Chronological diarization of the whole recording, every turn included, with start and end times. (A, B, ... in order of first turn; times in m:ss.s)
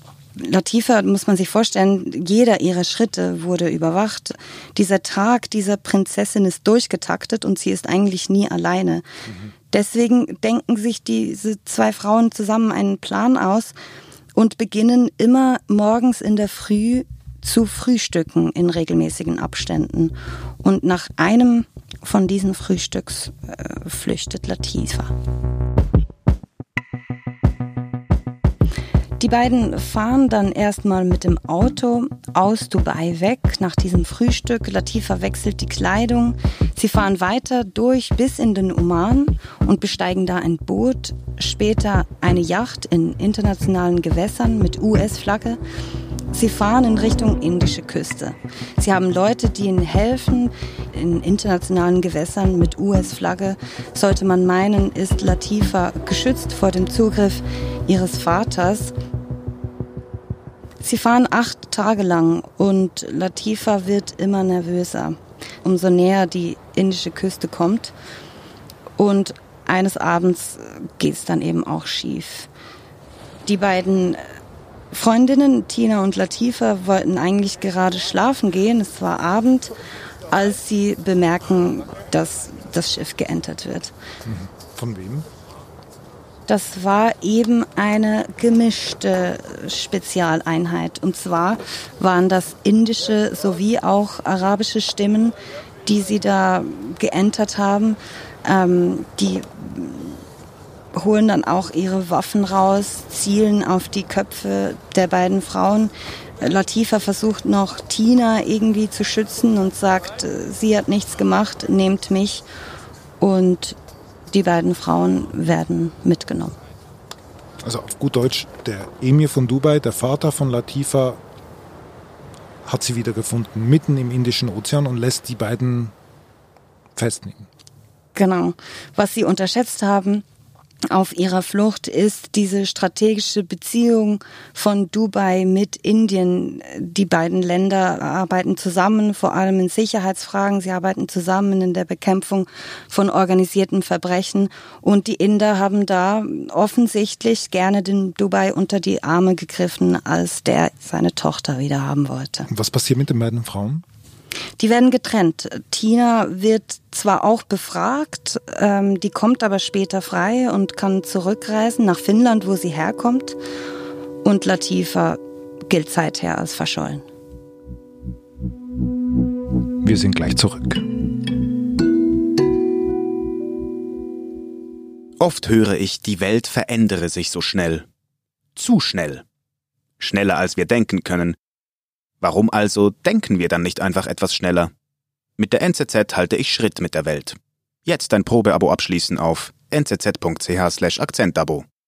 0:00.4-0:09.0 A
0:09.7-0:13.7 A
0:14.3-0:25.1 A
0:29.2-0:45.6 A
0:46.3-0:58.9 A
1:00.8-1:07.9 A
1:09.0-1:12.5 A
1:13.4-1:14.2 A
1:14.9-1:19.7 A
1:20.3-1:23.9 A
1:24.2-1:25.2 B
1:26.5-1:40.2 A
1:40.9-1:52.4 A
1:53.2-1:53.8 A
1:54.3-1:56.5 A
1:57.6-2:01.2 B
2:02.6-2:05.9 B
2:07.0-2:07.5 B
2:08.1-2:10.2 A
2:10.9-2:32.5 A
2:32.5-2:33.8 B
2:34.6-2:43.4 A
2:44.2-2:47.0 A
2:49.8-2:50.8 B
2:55.2-2:57.9 C
2:58.6-2:59.2 C
3:00.0-3:01.4 C
3:02.2-3:04.7 C
3:05.4-3:11.6 C